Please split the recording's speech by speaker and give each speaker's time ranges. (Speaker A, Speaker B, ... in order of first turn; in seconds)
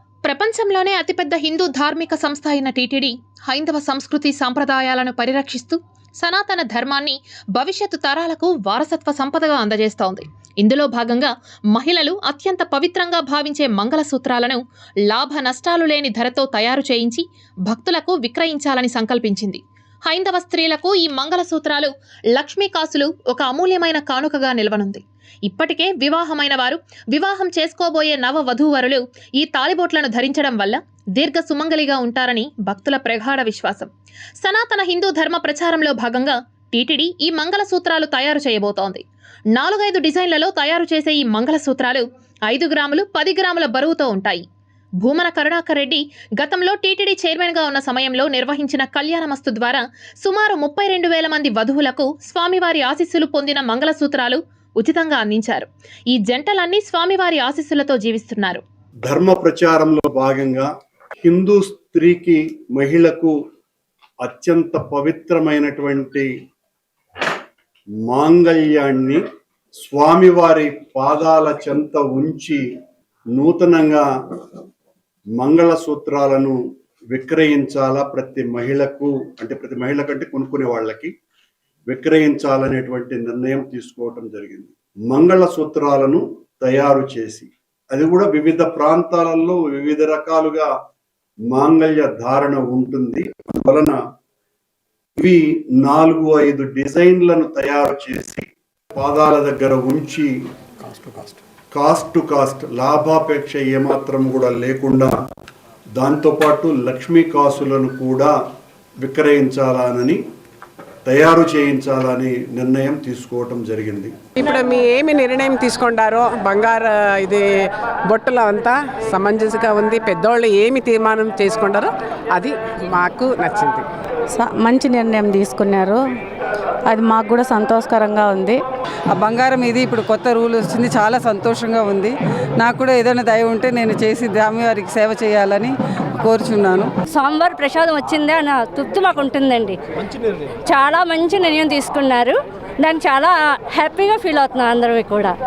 Speaker A: 0.2-33.9, 34.4-39.0, 39.5-44.4, 45.0-58.6
Speaker B: 59.1-60.7, 61.2-63.3, 64.2-66.3, 68.1-69.2, 69.9-72.6, 73.4-74.1, 75.4-76.6, 77.1-81.1, 81.9-90.7, 91.5-94.0, 95.2-98.5, 99.0-100.3, 101.8-105.1, 106.0-108.3, 109.0-110.2, 111.1-114.1
Speaker C: 101.0-101.3, 129.1-136.9
Speaker D: 114.4-117.5, 118.1-123.8
Speaker E: 124.3-126.0, 126.9-128.6
Speaker F: 137.1-139.8, 140.7-145.3